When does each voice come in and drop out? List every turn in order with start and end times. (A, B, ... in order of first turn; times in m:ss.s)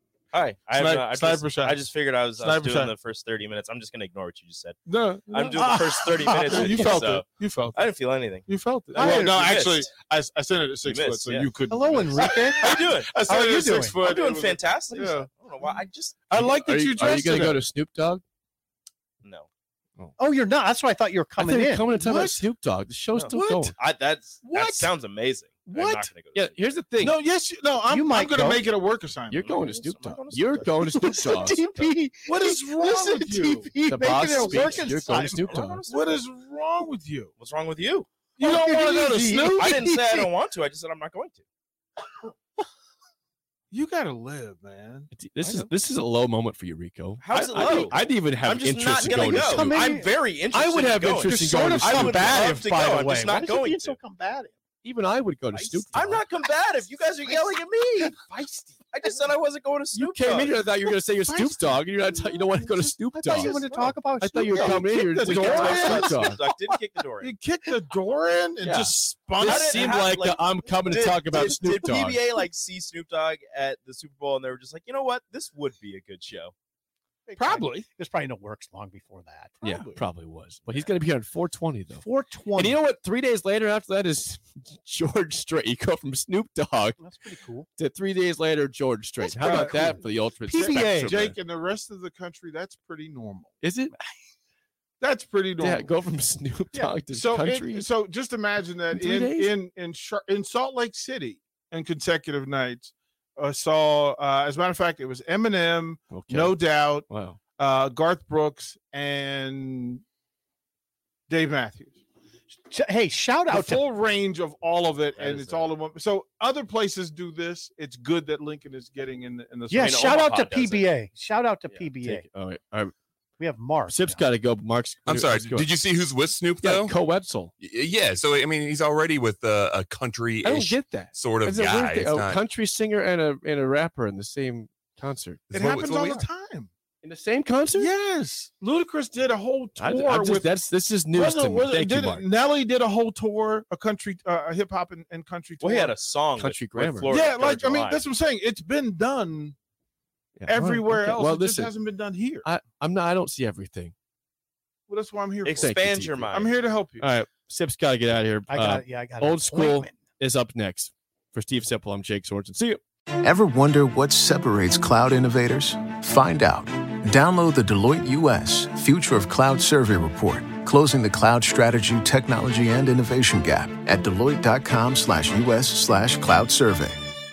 0:00.3-0:04.8 A
0:00.7-0:02.9 B
0:04.9-0:07.9 B
0:05.3-0:09.9 A
0:05.6-0:06.7 C
0:08.5-0:17.6 B
0:10.8-0:11.5 A
0:11.7-0:14.0 C
0:12.6-0:13.2 A
0:14.0-0:16.4 A
0:16.4-0:18.2 D
0:19.2-0:19.5 A
0:20.2-0:21.9 C
0:21.4-0:23.7 D
0:21.9-0:22.4 B
0:23.1-0:26.6 A
0:23.3-0:23.7 B
0:24.4-0:24.9 B
0:25.6-0:26.1 B
0:26.3-0:27.2 D
0:27.0-0:29.4 B
0:27.9-0:28.6 C
0:29.3-0:31.6 D
0:29.3-0:32.0 A
0:30.9-0:35.6 C
0:32.2-0:33.7 B
0:33.9-0:35.8 D
0:34.7-0:36.2 A
0:35.8-0:37.3 B
0:37.4-0:38.1 A
0:38.4-0:39.8 B
0:38.4-0:40.3 C
0:39.5-0:41.4 A
0:43.7-0:45.1 B
0:45.1-0:49.8 D
0:45.4-0:45.7 A
0:47.2-0:54.0 A
0:49.0-0:50.1 C
0:50.4-0:52.5 D
0:51.1-0:54.5 C
0:54.8-0:56.2 D
0:55.5-0:58.2 A
0:57.2-0:58.7 C
0:58.9-1:00.6 A
0:59.9-1:06.4 D
1:01.3-1:01.6 B
1:03.1-1:06.1 C
1:04.9-1:06.1 B
1:05.6-1:07.3 A
1:07.2-1:10.0 B
1:08.6-1:12.4 D
1:09.4-1:16.5 A
1:17.3-1:19.5 C
1:17.4-1:17.8 B
1:19.6-1:20.0 B
1:19.6-1:27.0 D
1:22.0-1:22.8 C
1:27.0-1:27.7 C
1:27.8-1:31.3 D
1:29.2-1:31.2 C
1:29.4-1:29.8 B
1:30.5-1:33.5 B
1:33.6-1:33.9 D
1:35.0-1:35.9 B
1:35.6-1:37.9 D
1:37.1-1:50.0 B
1:38.9-1:39.5 D
1:46.1-1:47.4 D
1:51.3-1:52.0 B
1:52.7-1:53.8 C
1:53.5-2:00.1 B
1:55.2-1:55.7 A
1:59.7-2:02.2 C
1:59.8-2:00.9 A
2:02.0-2:02.9 D
2:03.4-2:04.3 C
2:03.9-2:05.7 D
2:05.0-2:07.0 E
2:06.6-2:07.5 D
2:07.6-2:12.5 E
2:10.4-2:15.5 D
2:15.5-2:16.3 E
2:15.5-2:16.7 B
2:17.0-2:17.9 D
2:17.7-2:20.5 B
2:19.8-2:22.2 D
2:21.1-2:26.0 B
2:25.6-2:28.0 A
2:26.3-2:27.1 D
2:27.1-2:29.6 B
2:30.4-2:31.7 D
2:30.5-2:32.5 B
2:32.4-2:33.9 D
2:34.9-2:37.1 B
2:35.4-2:36.5 A
2:35.5-2:36.3 D
2:37.0-2:42.8 D
2:38.5-2:40.0 C
2:43.2-2:57.0 F